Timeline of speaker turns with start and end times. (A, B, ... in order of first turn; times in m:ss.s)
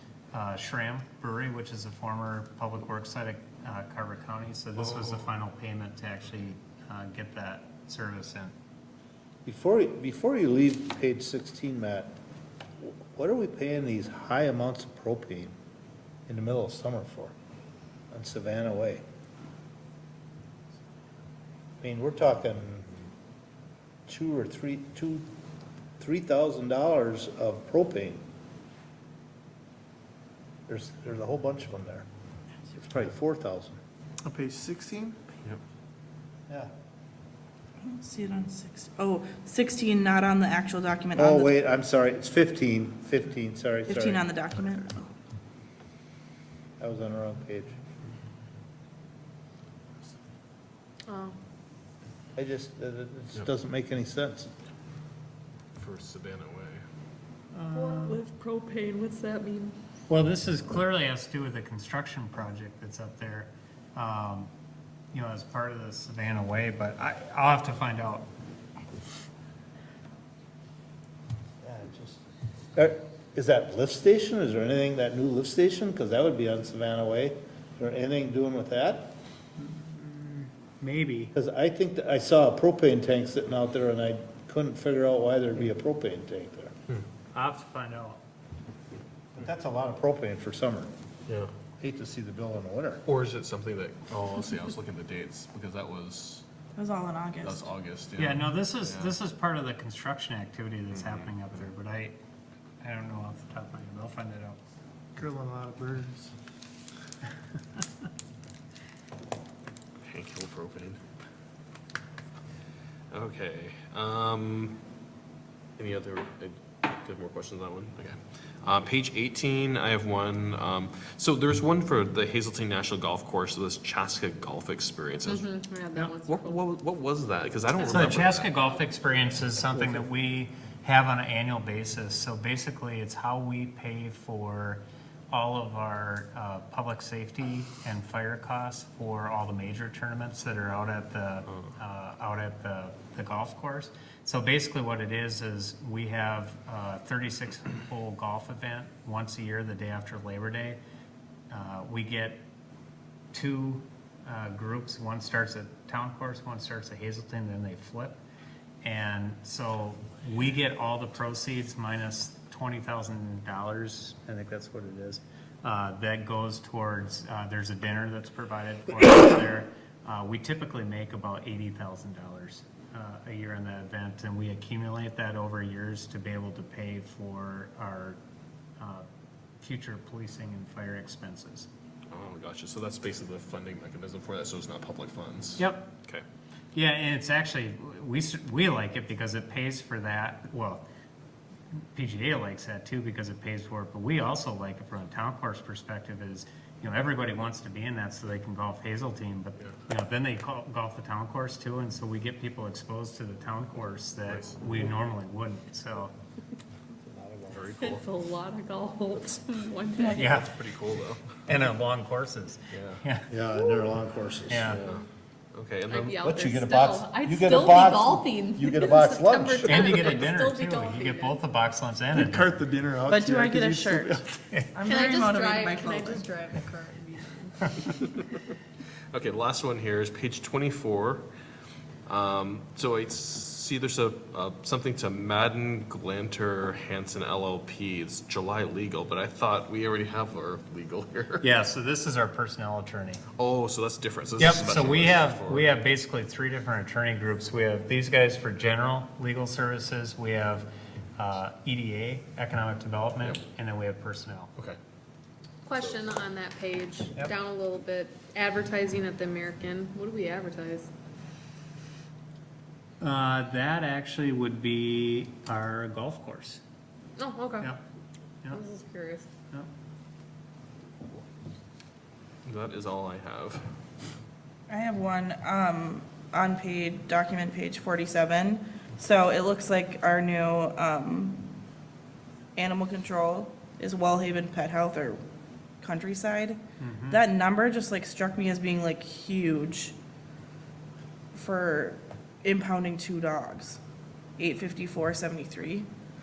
0:00.3-0:08.5 A
0:04.8-0:05.2 B
0:09.4-0:12.2 C
0:12.8-0:15.5 C
0:16.3-0:17.3 C
0:18.1-0:19.0 C
0:21.8-0:22.9 C
0:24.1-0:25.2 C
0:26.0-0:28.2 C
0:30.7-0:32.0 C
0:32.7-0:33.8 C
0:34.3-0:35.2 D
0:37.8-0:41.5 E
0:41.2-0:44.3 C
0:43.9-0:45.1 E
0:46.8-0:47.8 C
0:51.1-0:51.4 F
0:52.4-0:54.5 C
0:55.8-0:56.8 B
0:57.5-0:58.2 A
0:57.7-0:59.8 F
1:00.1-1:04.5 A
1:05.1-1:08.3 A
1:11.6-1:12.2 C
1:12.8-1:19.2 C
1:19.6-1:21.3 A
1:21.3-1:26.7 C
1:27.3-1:28.2 A
1:29.4-1:30.9 C
1:31.8-1:33.0 C
1:33.1-1:36.4 B
1:36.8-1:37.7 E
1:37.4-1:39.2 B
1:38.2-1:42.2 A
1:40.9-1:41.3 B
1:42.8-1:44.6 A
1:45.2-1:46.3 C
1:50.0-1:51.0 B
1:53.1-1:54.8 B
1:55.8-2:08.5 B
2:05.3-2:06.6 F
2:07.9-2:30.8 A
2:31.5-2:32.4 A
2:33.3-2:38.2 A
2:38.8-2:58.2 A
2:58.8-2:59.1 A
2:59.6-3:01.7 A
3:02.1-3:06.2 B
3:05.6-3:05.9 A
3:06.7-3:10.8 A
3:11.8-3:26.1 A
3:24.3-3:24.5 B
3:27.0-3:27.6 C
3:27.5-3:28.1 B
3:27.8-3:30.4 F
3:30.1-3:31.2 B
3:30.1-3:30.5 A
3:31.5-3:33.3 A
3:32.7-3:33.0 B
3:33.3-3:34.8 C
3:34.5-3:34.8 A
3:34.7-3:36.2 B
3:35.9-3:41.4 F
3:36.2-3:40.2 C
3:39.6-3:42.6 A
3:42.2-3:44.2 D
3:43.1-3:44.2 E
3:44.7-3:46.4 E
3:44.8-3:47.7 F
3:49.1-3:51.2 B
3:52.1-4:01.4 B
4:01.4-4:03.2 A
4:03.4-4:05.7 B
4:04.4-4:10.7 A
4:11.2-4:14.5 A
4:15.7-4:20.9 F
4:23.0-4:26.6 A
4:27.2-4:27.7 F
4:28.5-4:29.3 F
4:32.4-4:33.6 B
4:34.7-4:41.5 E
4:42.6-4:45.2 E
4:45.8-4:50.0 E
4:46.8-4:47.2 A
4:51.3-4:53.8 E
4:54.4-4:55.9 E